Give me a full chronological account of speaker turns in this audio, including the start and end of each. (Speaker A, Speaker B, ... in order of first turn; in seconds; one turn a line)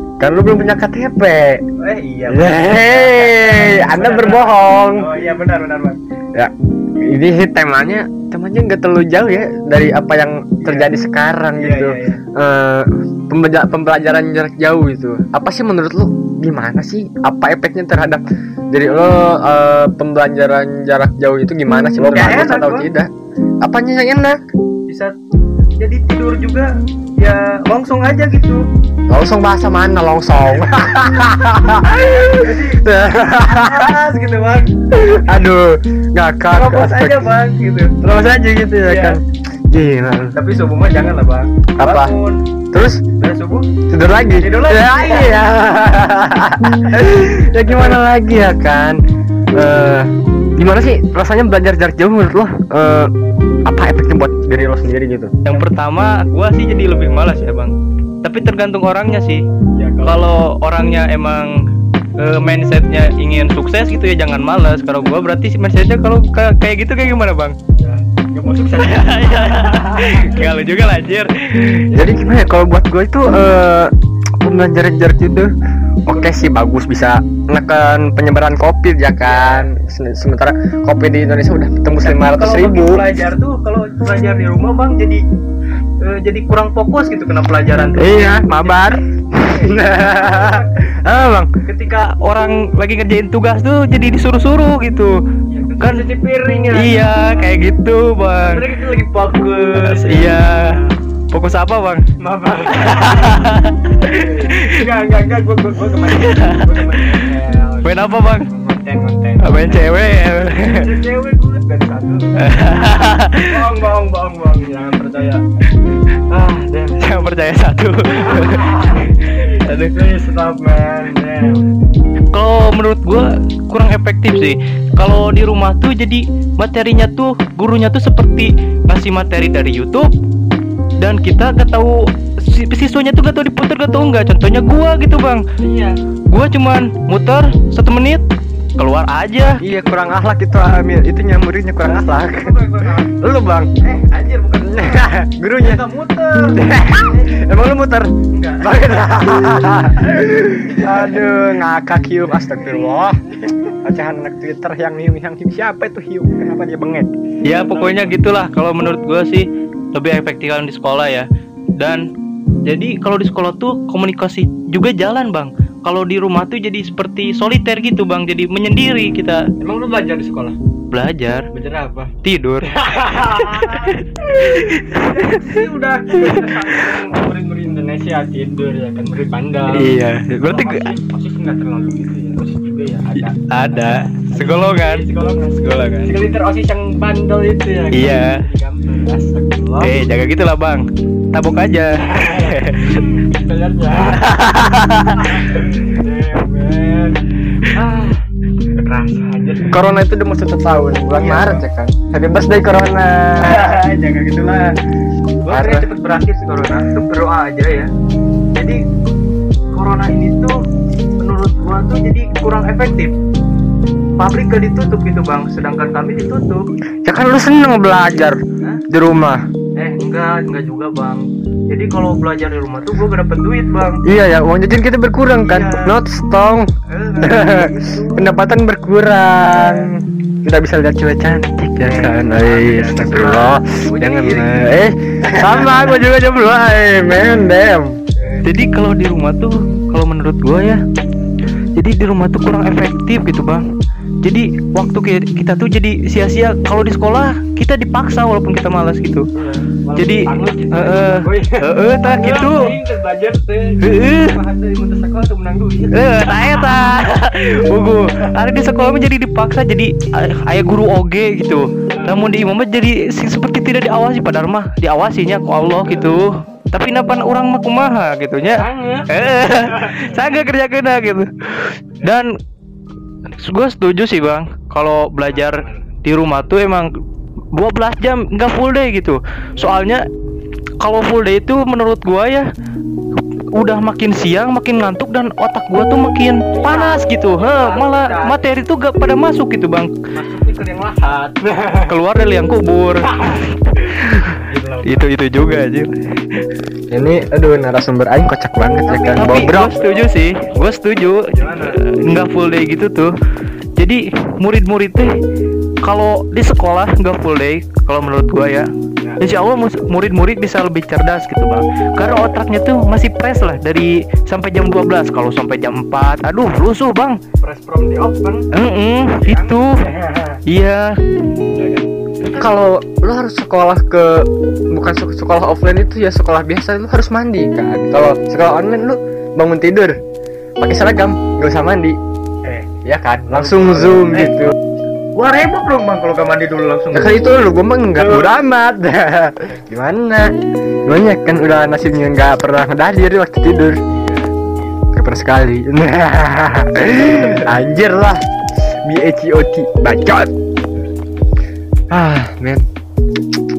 Speaker A: 0.2-1.6
Speaker B: 1.8-6.0
Speaker A: 2.3-5.1
Speaker A: 6.3-23.1
Speaker B: 10.6-10.9
Speaker B: 11.6-12.2
Speaker B: 22.0-22.9
Speaker A: 23.6-24.4
Speaker B: 24.9-25.1
Speaker B: 25.8-28.6
Speaker A: 29.1-34.0
Speaker B: 32.1-32.8
Speaker B: 33.3-34.9
Speaker A: 34.9-37.3
Speaker B: 36.5-38.0
Speaker A: 38.0-40.4
Speaker B: 38.8-39.2
Speaker B: 40.3-42.4
Speaker A: 41.8-42.1
Speaker A: 42.7-43.0
Speaker B: 43.2-43.7
Speaker A: 43.9-49.0
Speaker B: 44.4-45.5
Speaker B: 47.7-48.0
Speaker A: 49.5-53.1
Speaker A: 53.6-55.4
Speaker C: 55.4-59.4
Speaker B: 59.7-60.3
Speaker C: 60.0-61.5
Speaker C: 62.2-67.5
Speaker B: 67.8-70.5
Speaker C: 68.8-71.9
Speaker B: 71.9-72.2
Speaker A: 71.9-75.5
Speaker A: 76.0-83.1
Speaker B: 76.1-76.5
Speaker B: 79.2-79.7
Speaker B: 82.0-85.2
Speaker B: 86.0-90.8
Speaker A: 88.0-91.5
Speaker B: 91.7-92.1
Speaker C: 91.9-95.2
Speaker B: 95.5-97.6
Speaker C: 95.8-96.1
Speaker C: 96.7-98.6
Speaker B: 98.4-101.0
Speaker C: 99.8-100.7
Speaker C: 101.3-102.0
Speaker B: 102.2-103.5
Speaker C: 102.7-104.8
Speaker B: 104.1-110.0
Speaker C: 106.0-107.3
Speaker C: 107.8-108.5
Speaker C: 109.4-110.9
Speaker B: 110.6-115.4
Speaker C: 112.4-113.7
Speaker B: 116.3-117.2
Speaker C: 117.0-120.0
Speaker B: 118.2-119.1
Speaker B: 119.9-121.7
Speaker C: 122.3-130.1
Speaker C: 131.0-135.4
Speaker B: 135.6-136.0
Speaker C: 136.3-138.2
Speaker C: 138.8-139.6
Speaker A: 139.6-143.7
Speaker B: 139.6-140.2
Speaker B: 141.8-143.2
Speaker B: 143.8-147.4
Speaker A: 144.6-145.8
Speaker A: 146.4-157.1
Speaker B: 148.3-149.3
Speaker B: 150.5-151.2
Speaker C: 157.4-161.3
Speaker B: 157.4-158.2
Speaker C: 162.6-169.5
Speaker B: 169.6-170.6
Speaker C: 170.9-171.5
Speaker B: 171.5-172.1
Speaker C: 172.2-177.1
Speaker B: 172.7-189.9
Speaker C: 179.7-180.9
Speaker C: 183.1-185.1
Speaker C: 185.6-186.1
Speaker C: 187.9-188.4
Speaker C: 189.8-193.1
Speaker B: 192.1-194.4
Speaker C: 194.0-195.6
Speaker B: 195.2-199.8
Speaker A: 199.7-203.7
Speaker B: 201.1-201.6
Speaker B: 203.4-204.7
Speaker B: 205.4-207.9
Speaker A: 205.5-205.9
Speaker B: 208.5-208.8
Speaker B: 209.7-210.6
Speaker B: 211.2-213.1
Speaker B: 214.2-216.6
Speaker A: 217.0-219.4
Speaker B: 219.8-220.6
Speaker C: 220.1-221.2
Speaker B: 221.1-224.0
Speaker C: 222.1-222.9
Speaker A: 224.0-226.7
Speaker B: 225.3-226.0
Speaker B: 226.9-228.3
Speaker A: 227.2-238.0
Speaker B: 229.4-229.9
Speaker B: 231.8-234.7
Speaker B: 235.3-235.7
Speaker C: 238.4-240.8
Speaker C: 241.8-243.6
Speaker C: 244.2-249.3
Speaker B: 249.3-256.8
Speaker C: 249.9-252.7
Speaker C: 253.8-254.4
Speaker C: 255.9-272.3
Speaker B: 261.9-262.3
Speaker B: 265.8-266.1
Speaker B: 268.5-269.1
Speaker B: 269.7-270.1
Speaker C: 273.4-276.9
Speaker B: 275.3-275.8
Speaker C: 277.5-280.0
Speaker C: 280.8-282.5
Speaker C: 283.1-289.9
Speaker B: 286.5-288.4
Speaker B: 290.1-291.9
Speaker C: 291.9-295.9
Speaker B: 293.1-293.4
Speaker B: 294.2-295.1
Speaker A: 296.9-299.8
Speaker B: 298.9-300.1
Speaker C: 299.2-303.1
Speaker B: 301.3-301.8
Speaker C: 303.8-305.1
Speaker C: 305.8-308.7
Speaker C: 309.2-317.2
Speaker B: 317.4-318.5
Speaker C: 318.5-319.7
Speaker B: 319.1-320.4
Speaker C: 320.5-320.9
Speaker B: 321.5-322.5
Speaker A: 322.3-330.0
Speaker A: 330.6-332.0
Speaker B: 332.4-332.7
Speaker A: 332.8-334.5
Speaker B: 333.3-334.5
Speaker B: 335.1-337.4
Speaker A: 336.9-340.3
Speaker B: 337.9-338.4
Speaker A: 340.9-343.8
Speaker B: 343.9-344.8
Speaker A: 344.9-348.2
Speaker B: 347.0-347.5
Speaker A: 348.8-350.3
Speaker A: 351.9-352.6